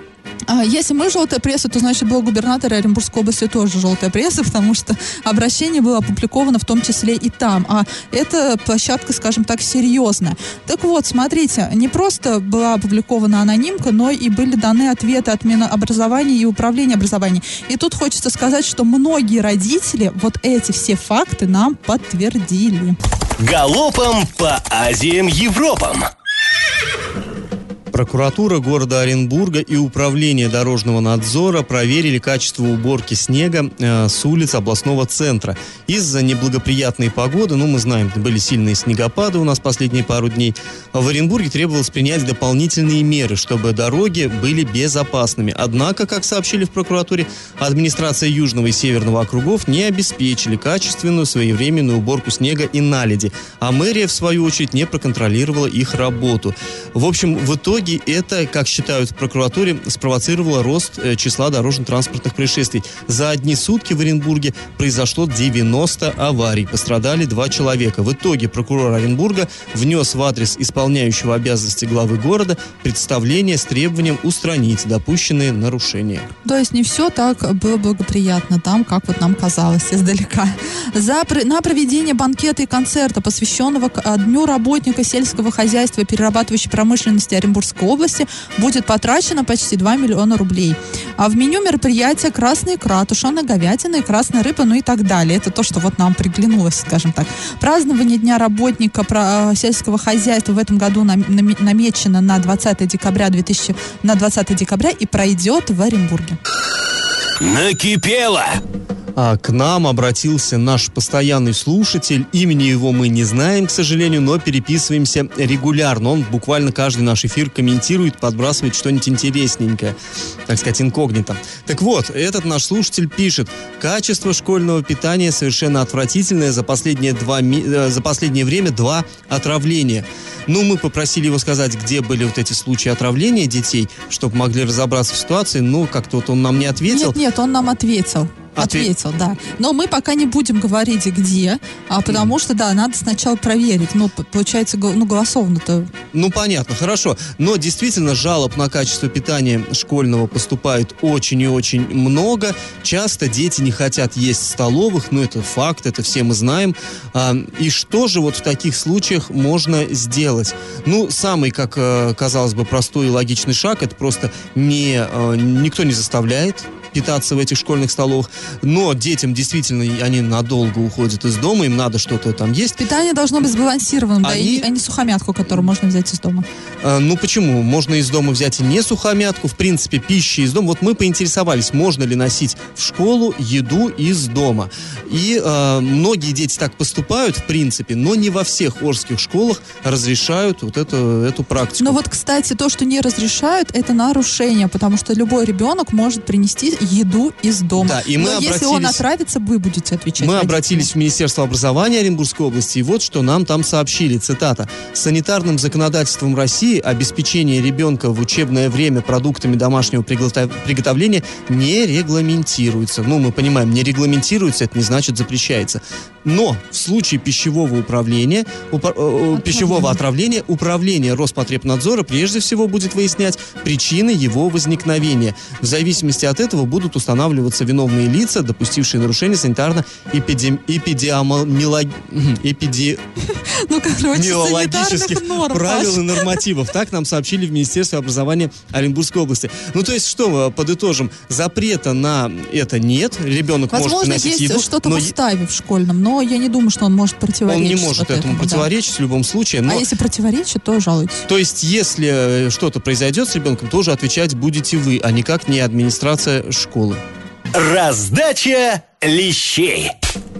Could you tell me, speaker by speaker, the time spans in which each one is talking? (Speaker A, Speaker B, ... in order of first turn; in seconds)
Speaker A: 0.5-23.0, 76.4-106.4, 136.9-145.9, 172.8-176.4, 191.8-200.9, 219.3-220.0, 233.3-236.3, 243.7-248.7, 249.7-251.3
Speaker B: 23.4-26.1, 107.4-108.6, 257.5-259.9
Speaker C: 27.9-76.3, 109.2-119.9, 120.5-137.2, 138.6-138.9, 146.1-172.8, 174.2-174.7, 176.8-192.0, 197.8-199.0, 200.2-233.0, 234.1-245.1, 247.5-249.8, 251.3-257.0